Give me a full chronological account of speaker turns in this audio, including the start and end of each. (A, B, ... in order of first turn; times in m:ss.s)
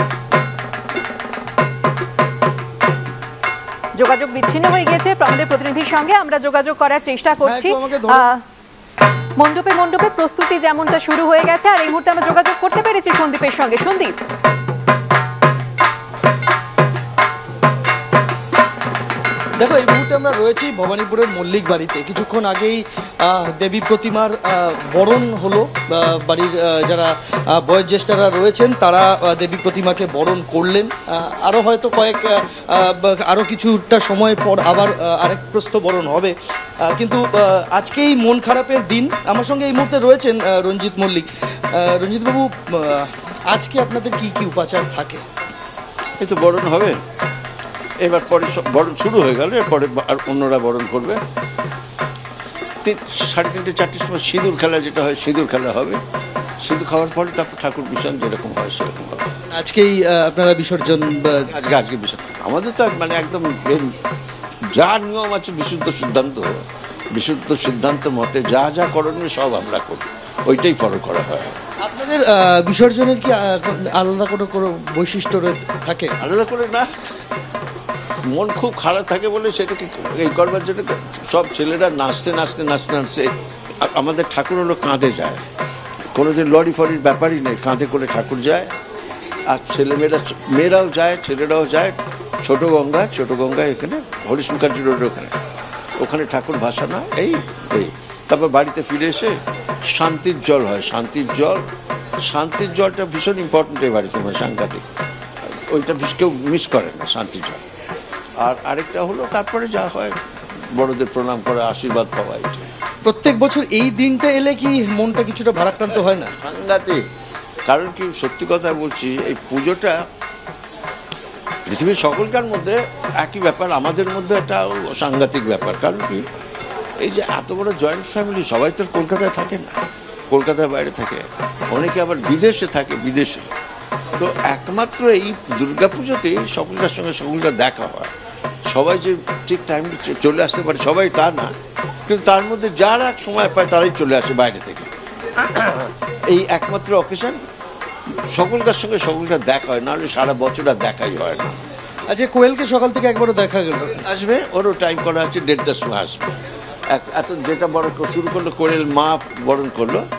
0:03.9-0:08.4 A
0:07.4-0:08.3 B
0:09.4-0:14.1 A
0:19.6-0:45.2 B
0:46.2-0:47.0 C
0:48.0-0:51.2 C
0:52.8-0:56.0 C
0:56.6-0:59.3 C
0:59.5-1:01.5 B
1:01.5-1:03.9 C
1:04.7-1:11.6 C
1:11.8-1:16.2 B
1:16.2-1:16.9 C
1:18.3-1:25.4 C
1:26.1-1:28.7 C
1:29.5-1:35.3 C
1:36.0-1:41.6 C
1:42.2-1:44.8 C
1:45.7-1:47.6 C
1:48.4-1:50.2 C
1:50.7-1:52.6 C
1:53.0-1:56.3 B
1:56.4-1:57.0 C
1:57.7-2:00.0 C
2:01.6-2:06.2 C
2:07.0-2:09.8 C
2:10.3-2:13.5 C
2:14.2-2:18.1 C
2:18.7-2:21.5 C
2:22.1-2:27.4 C
2:28.3-2:31.6 C
2:32.1-2:34.0 B
2:34.0-2:36.3 C
2:36.9-2:40.0 C